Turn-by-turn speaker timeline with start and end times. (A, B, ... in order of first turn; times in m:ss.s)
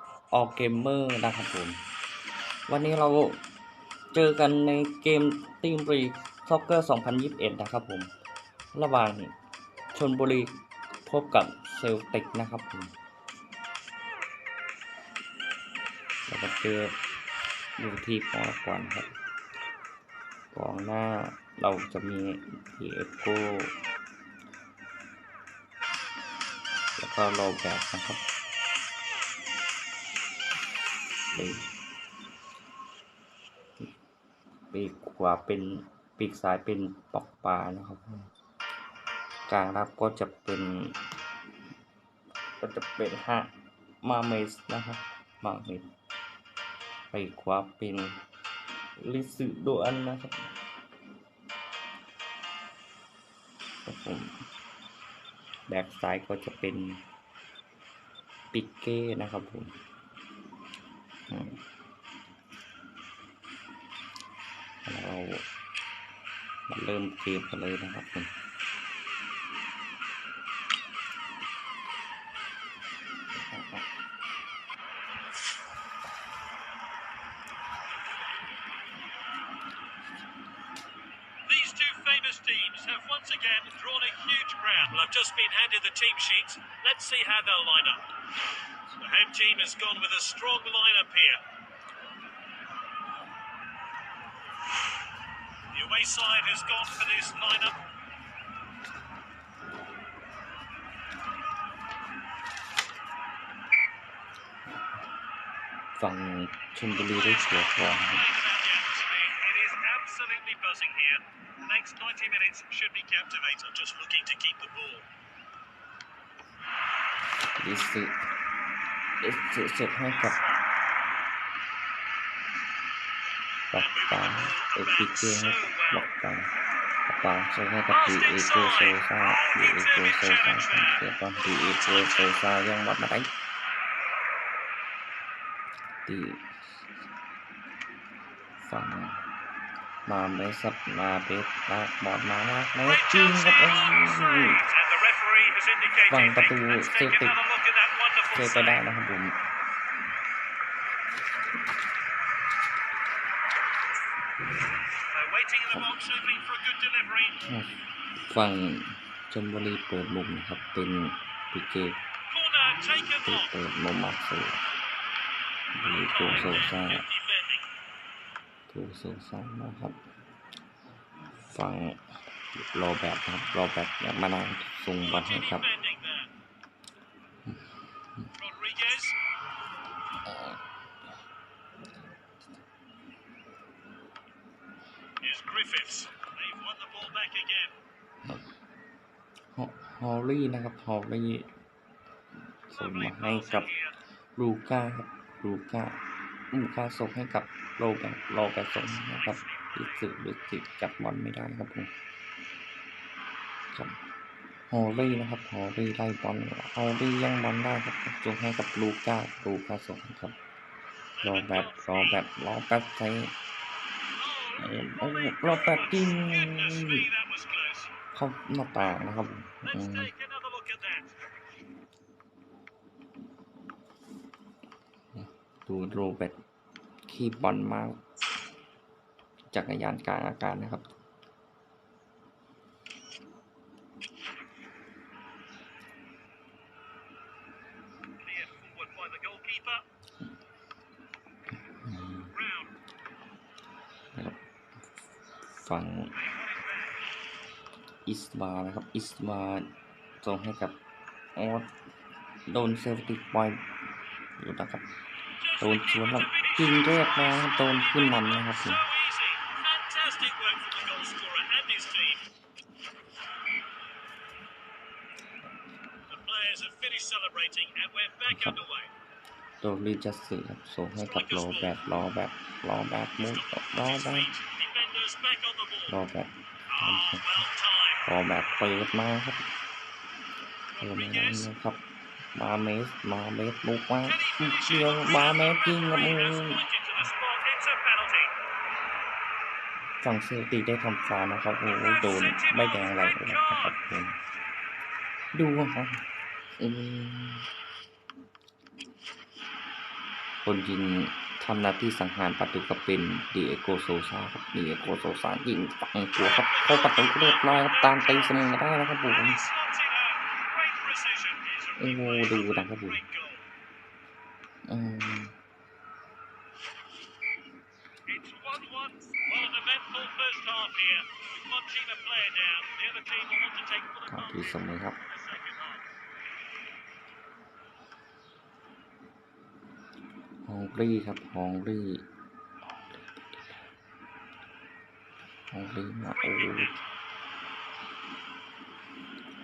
0:00.3-0:01.8 A
0:02.7-0:03.4 A
0:04.1-0:08.1 A
0:08.7-0:09.3 A
0:09.9-0:12.9 A
0:16.3-0:16.9 A
0:17.8-0:19.1 A
0:20.5-0:23.8 A
0:27.0-0:28.2 A
0:31.3-0:31.7 A
0:34.7-0:38.3 A
0:39.5-0:41.0 A
0:42.6-0:43.5 A
0:44.0-0:45.9 A
0:47.1-0:48.2 A
0:49.0-0:50.5 A
0:53.8-0:54.4 A
0:55.7-0:57.0 A
0:58.5-0:59.7 A
1:01.3-1:01.6 A
1:04.8-1:05.4 A
1:06.7-1:08.3 A
1:13.5-1:13.8 A
1:21.5-1:28.1 B
1:29.0-1:31.4 B
1:35.7-1:37.8 B
1:46.0-1:48.2 A
1:46.9-1:55.1 B
1:57.6-1:58.2 A
1:59.2-2:00.4 A
2:00.1-2:00.7 B
2:03.7-2:06.5 A
2:03.7-2:06.1 B
2:07.1-2:13.3 A
2:07.9-2:11.0 B
2:11.6-2:12.4 B
2:16.1-2:16.9 A
2:18.6-2:19.2 A
2:20.1-2:24.6 A
2:22.8-2:28.8 B
2:26.1-2:27.4 A
2:28.3-2:29.4 A
2:35.1-2:37.4 B
2:37.4-2:42.0 A
2:42.3-2:43.5 B
2:43.2-2:44.6 A
2:45.7-2:47.0 A
2:45.8-2:47.7 B
2:48.7-2:50.0 A
2:51.4-2:55.7 A
2:55.0-2:56.3 B
2:58.4-2:59.2 B
3:00.2-3:00.6 A
3:05.2-3:07.8 B
3:09.6-3:11.5 A
3:12.7-3:13.7 A
3:12.7-3:14.0 B
3:14.4-3:16.0 A
3:16.5-3:21.9 A
3:18.8-3:20.1 B
3:24.7-3:30.4 A
3:31.2-3:32.2 B
3:31.2-3:33.3 A
3:34.2-3:37.9 B
3:34.6-3:37.1 A
3:38.1-3:40.1 A
3:39.6-3:41.1 B
3:45.2-3:46.4 A
3:47.1-3:48.0 A
3:49.5-3:50.9 A
3:58.2-3:59.8 B
4:01.8-4:02.3 A
4:02.3-4:02.8 B
4:04.1-4:04.4 A
4:05.6-4:06.2 A
4:06.1-4:07.0 B
4:08.1-4:10.8 A
4:11.4-4:11.7 A
4:12.5-4:13.6 A
4:14.4-4:14.9 A
4:15.4-4:22.2 B
4:15.6-4:18.8 A
4:26.1-4:28.9 B
4:28.3-4:28.6 A
4:29.6-4:34.3 A
4:31.0-4:31.8 B
4:33.2-4:36.0 B
4:35.9-4:37.3 A
4:36.7-4:38.0 B
4:38.1-4:39.4 A
4:40.8-4:41.5 B
4:40.8-4:41.8 A
4:42.4-4:46.6 A
4:44.0-4:48.3 B
4:50.0-4:54.2 A
4:51.6-4:53.8 B
4:55.3-4:56.0 A
4:56.6-4:57.5 A
5:00.4-5:09.4 A
5:06.2-5:13.4 B
5:11.8-5:13.0 A
5:14.7-5:15.3 A
5:18.1-5:25.8 B
5:24.1-5:25.0 A
5:30.5-5:32.1 A
5:35.5-5:36.7 A
5:36.0-5:36.8 B